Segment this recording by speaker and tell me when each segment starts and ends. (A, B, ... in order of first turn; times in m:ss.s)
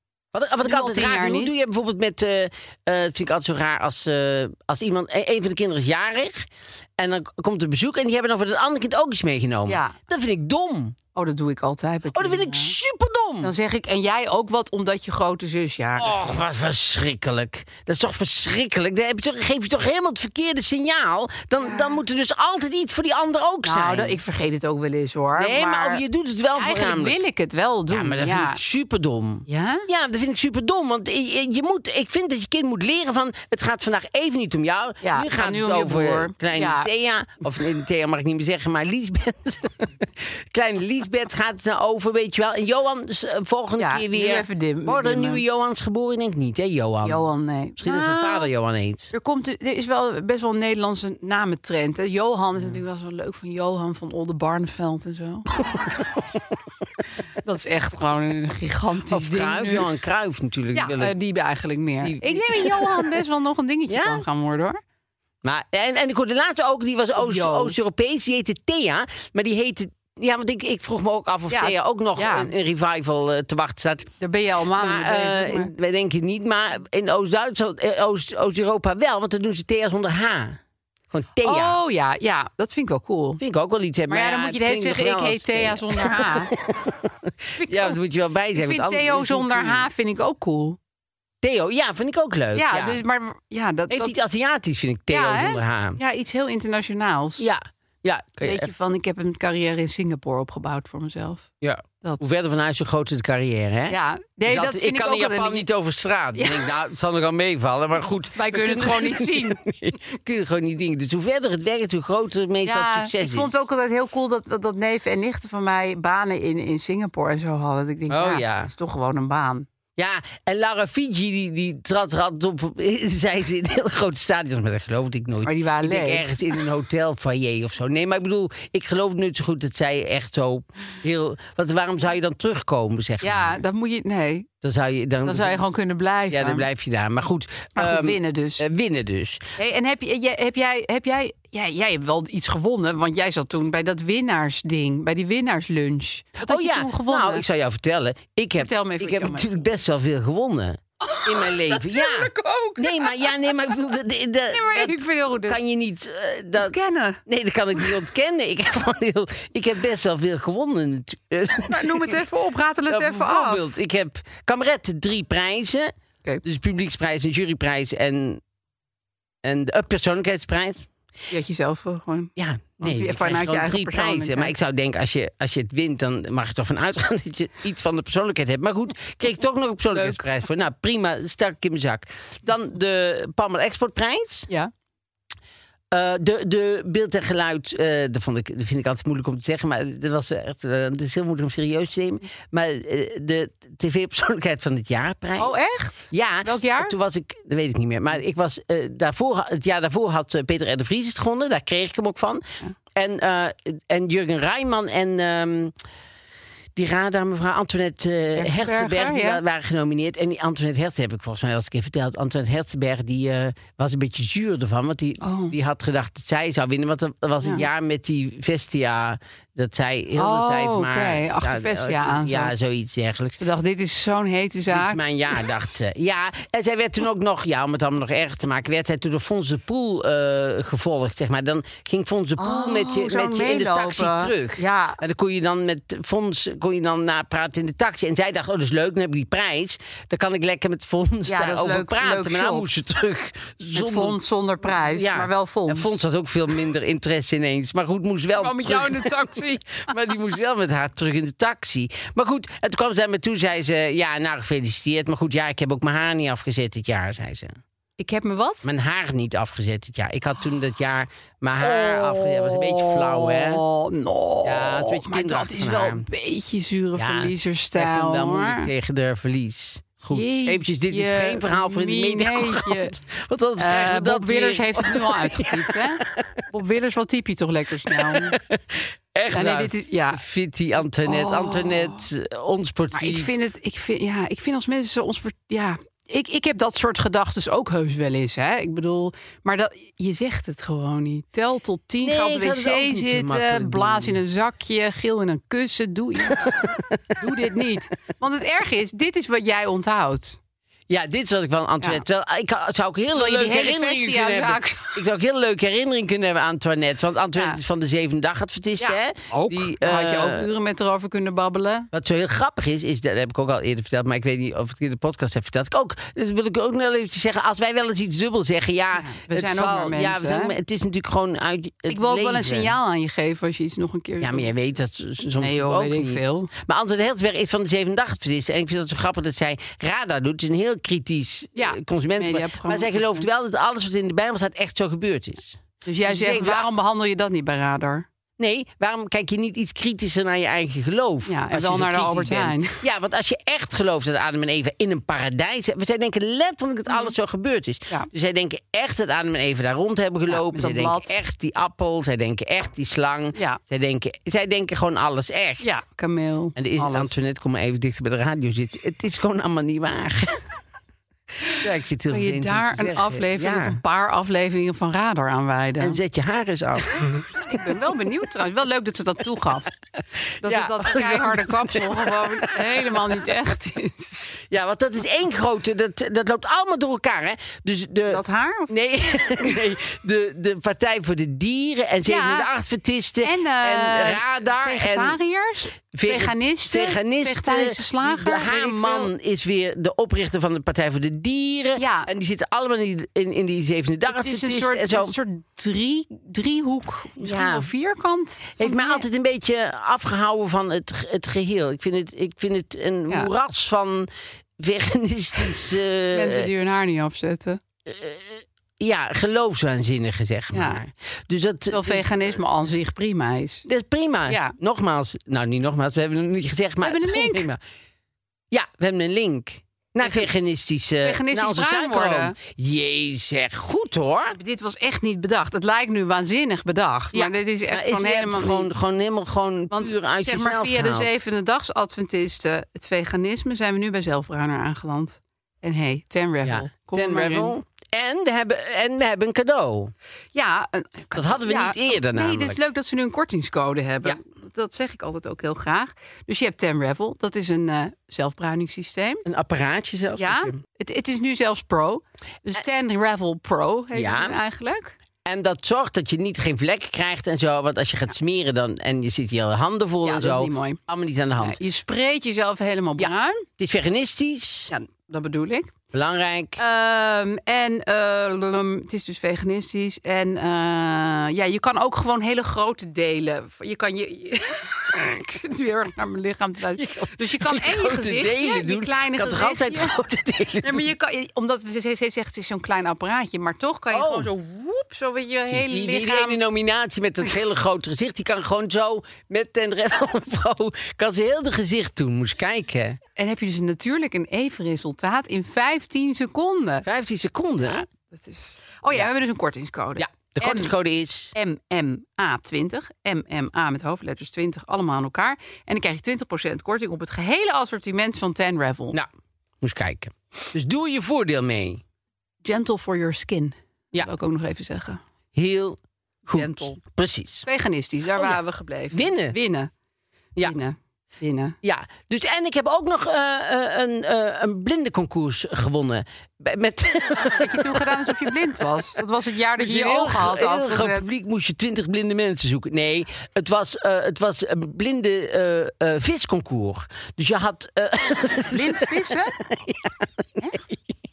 0:00.3-0:11.0 A
0:00.6-0:01.6 B
0:09.7-0:10.0 B
0:11.2-0:12.8 B
0:12.1-0:13.5 A
0:13.4-0:16.2 B
0:16.0-0:24.2 A
0:21.6-0:22.0 B
0:23.6-0:26.0 B
0:25.4-0:27.2 A
0:26.5-0:28.6 B
0:27.9-0:47.3 A
0:29.5-0:29.9 B
0:35.0-0:36.9 B
0:43.8-0:45.4 B
0:47.0-0:48.5 B
0:47.8-0:49.1 A
0:49.1-0:55.5 B
0:55.7-0:56.2 A
0:57.4-0:59.9 B
0:59.1-1:01.2 A
1:00.7-1:04.8 B
1:02.0-1:03.1 A
1:03.9-1:04.2 A
1:05.4-1:14.1 A
1:07.2-1:07.8 B
1:11.5-1:12.5 B
1:14.2-1:15.7 B
1:14.8-1:20.6 A
1:21.1-1:21.8 A
1:21.4-1:23.4 B
1:23.4-1:29.9 A
1:24.1-1:26.5 B
1:27.6-1:28.0 B
1:28.6-1:30.8 B
1:31.4-1:33.0 A
1:32.5-1:34.1 B
1:33.9-1:36.0 A
1:35.1-1:37.5 B
1:37.4-1:38.7 A
1:38.4-1:41.5 B
1:41.6-1:53.5 A
1:43.9-1:45.7 B
1:46.4-1:46.6 B
1:48.4-1:49.6 B
1:52.6-1:59.7 B
1:58.1-1:58.7 A
2:00.0-2:13.6 A
2:05.4-2:06.3 B
2:13.2-2:14.5 B
2:14.6-2:15.6 A
2:15.2-2:16.7 B
2:16.3-2:19.5 A
2:17.8-2:18.6 B
2:19.6-2:27.4 B
2:26.4-2:36.8 A
2:28.6-2:29.6 B
2:31.0-2:33.5 B
2:34.5-2:35.6 B
2:36.6-2:37.2 B
2:37.3-2:42.2 A
2:41.7-2:43.7 B
2:42.9-2:48.4 A
2:49.4-2:50.9 A
2:51.3-2:54.5 B
2:52.4-3:04.5 A
2:59.9-3:00.2 B
3:05.9-3:15.5 A
3:15.4-3:16.9 B
3:16.1-3:25.8 A
3:26.8-3:43.4 A
3:28.4-3:29.4 B
3:35.2-3:35.6 B
3:40.2-3:42.5 B
3:43.4-3:45.0 B
3:44.7-4:17.6 A
3:52.4-3:55.0 B
4:01.3-4:02.6 B
4:03.7-4:05.9 B
4:08.3-4:09.9 B
4:18.0-4:18.7 B
4:18.6-4:23.6 A
4:21.6-4:28.7 B
4:24.4-4:26.1 A
4:27.0-4:36.4 A
4:30.0-4:33.0 B
4:33.6-4:38.4 B
4:37.9-4:43.3 A
4:39.3-4:40.2 B
4:41.0-4:42.0 B
4:42.9-5:00.4 B
4:52.0-4:54.2 A
4:56.3-4:57.4 A
5:00.9-5:10.5 A
5:03.1-5:05.0 B
5:08.8-5:11.9 B
5:11.9-5:22.8 A
5:19.0-5:20.6 B
5:21.9-5:24.5 B
5:24.2-5:36.6 A
5:25.4-5:26.5 B
5:31.6-5:33.3 B
5:35.8-5:38.1 B
5:38.4-5:55.7 A
5:41.3-5:42.8 B
5:46.9-5:47.1 B
5:50.3-5:51.2 B
5:53.4-5:53.6 B
5:55.6-5:57.2 B
5:56.6-6:00.4 A
6:01.5-6:03.8 A
6:02.1-6:06.0 B
6:05.8-6:07.3 A
6:07.3-6:09.7 B
6:10.4-6:14.3 B
6:10.4-6:13.1 A
6:14.5-6:25.2 A
6:18.1-6:18.7 B
6:22.0-6:22.5 B
6:23.2-6:29.1 B
6:25.9-6:35.2 A
6:31.8-6:32.1 B
6:34.1-6:39.0 B
6:37.2-6:37.7 A
6:38.6-6:44.1 A
6:44.6-6:46.5 A
6:46.1-6:47.6 B
6:47.9-6:52.4 A
6:50.5-6:50.8 B
6:51.7-6:53.7 B
6:53.7-6:57.6 A
6:54.3-6:54.6 B
6:56.8-6:57.5 B
6:58.5-7:04.4 A
7:00.0-7:00.3 B
7:01.0-7:02.4 B
7:04.4-7:08.7 B
7:07.1-7:11.1 A
7:09.7-7:17.6 B
7:16.4-7:19.9 A
7:20.4-7:29.2 B
7:21.1-7:22.6 A
7:29.2-7:30.6 A
7:30.2-7:34.9 B
7:33.9-7:34.4 A
7:35.2-7:41.6 A
7:40.0-7:40.8 B
7:41.4-7:43.5 B
7:43.0-7:44.7 A
7:44.7-7:45.7 B
7:45.9-7:46.6 A
7:46.6-8:00.0 B
7:56.8-8:00.9 A
8:00.6-8:06.4 B
8:03.9-8:04.3 A
8:05.5-8:13.0 A
8:13.2-8:16.8 B
8:16.8-8:17.8 A
8:17.6-8:20.7 B
8:20.0-8:21.3 A
8:21.3-8:29.0 B
8:29.6-8:31.8 A
8:32.4-8:35.0 B
8:35.4-8:37.5 A
8:36.3-8:36.8 B
8:37.4-8:39.7 B
8:38.2-8:38.4 A
8:38.9-8:39.4 A
8:40.4-8:41.6 B
8:41.6-8:48.3 A
8:47.2-8:51.1 B
8:49.6-9:00.7 A
8:58.5-8:59.4 B